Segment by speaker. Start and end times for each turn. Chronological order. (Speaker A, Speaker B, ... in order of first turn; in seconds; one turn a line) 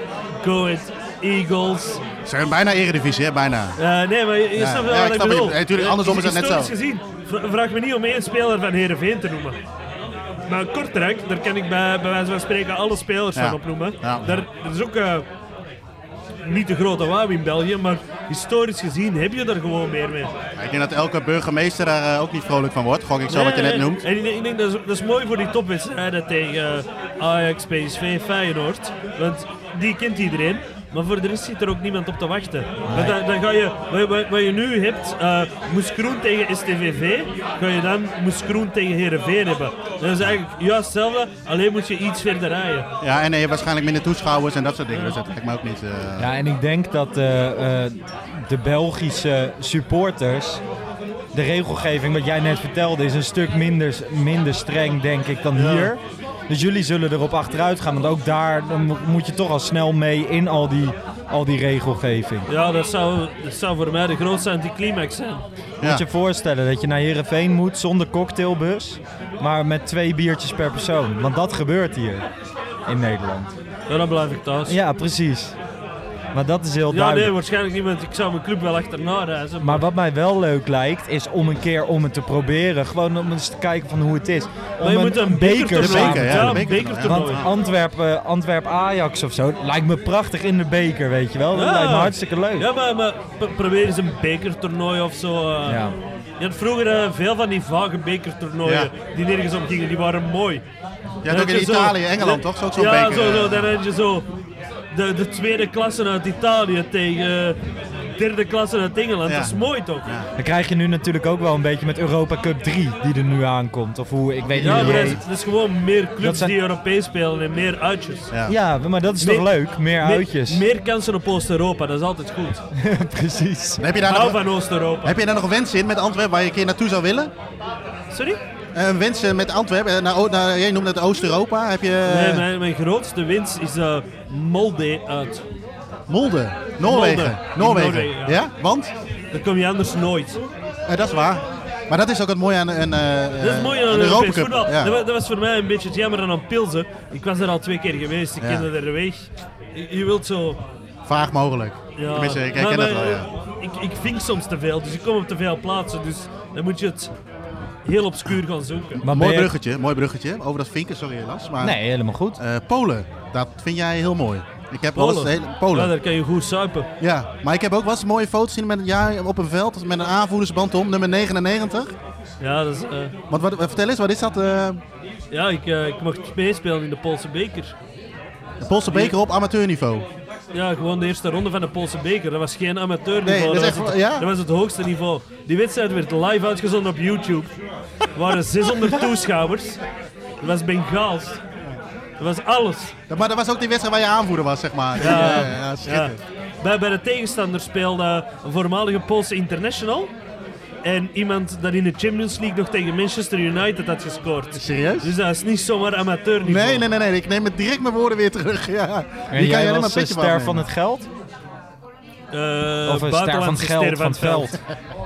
Speaker A: 0.4-2.0
Speaker B: 2.2-3.8
Speaker A: 3.8-9.6
Speaker B: 4.5-6.7
Speaker A: 10.5-15.2
Speaker B: 13.3-14.4
Speaker A: 16.4-20.3
Speaker B: 20.6-24.0
Speaker A: 23.3-42.9
Speaker C: 32.8-33.1
Speaker B: 43.0-46.3
Speaker C: 46.2-50.6
Speaker C: 51.3-62.5
Speaker A: 55.5-55.9
Speaker A: 62.5-65.4
Speaker C: 65.8-72.2
Speaker C: 72.8-73.5
Speaker A: 73.9-74.8
Speaker C: 74.6-75.5
Speaker C: 76.3-77.3
Speaker A: 76.9-79.8
Speaker C: 79.6-92.7
Speaker A: 84.8-87.5
Speaker B: 85.8-87.5
Speaker A: 91.5-95.8
Speaker C: 95.7-95.9
Speaker A: 96.4-100.6
Speaker B: 98.6-98.9
Speaker B: 101.2-103.7
Speaker A: 101.3-104.3
Speaker A: 104.9-107.6
Speaker A: 108.2-110.0
Speaker B: 109.2-110.3
Speaker C: 110.4-115.2
Speaker B: 114.4-115.2
Speaker A: 114.6-118.3
Speaker C: 116.2-116.5
Speaker B: 118.3-118.6
Speaker C: 118.5-120.6
Speaker A: 119.2-122.6
Speaker C: 122.7-123.8
Speaker B: 123.8-124.4
Speaker A: 124.0-125.2
Speaker B: 125.0-127.3
Speaker A: 128.1-128.4
Speaker B: 128.7-132.4
Speaker A: 132.0-135.4
Speaker B: 136.1-138.9
Speaker A: 136.8-138.4
Speaker A: 139.3-140.4
Speaker B: 140.9-144.9
Speaker A: 143.4-150.6
Speaker B: 148.4-148.6
Speaker B: 151.1-153.3
Speaker A: 151.9-157.1
Speaker A: 157.8-159.0
Speaker B: 159.0-161.8
Speaker C: 159.0-159.5
Speaker C: 161.6-162.4
Speaker B: 162.4-165.9
Speaker A: 164.9-166.9
Speaker B: 167.0-171.9
Speaker A: 172.4-173.1
Speaker B: 173.3-174.8
Speaker A: 175.3-177.8
Speaker B: 178.6-180.1
Speaker A: 180.5-187.5
Speaker B: 183.2-184.2
Speaker A: 188.1-189.8
Speaker A: 190.4-191.4
Speaker A: 192.2-192.9
Speaker B: 193.1-196.2
Speaker A: 195.0-200.1
Speaker A: 200.8-206.8
Speaker B: 204.6-205.1
Speaker B: 206.4-210.6
Speaker C: 209.3-211.1
Speaker A: 212.3-214.6
Speaker C: 212.8-214.6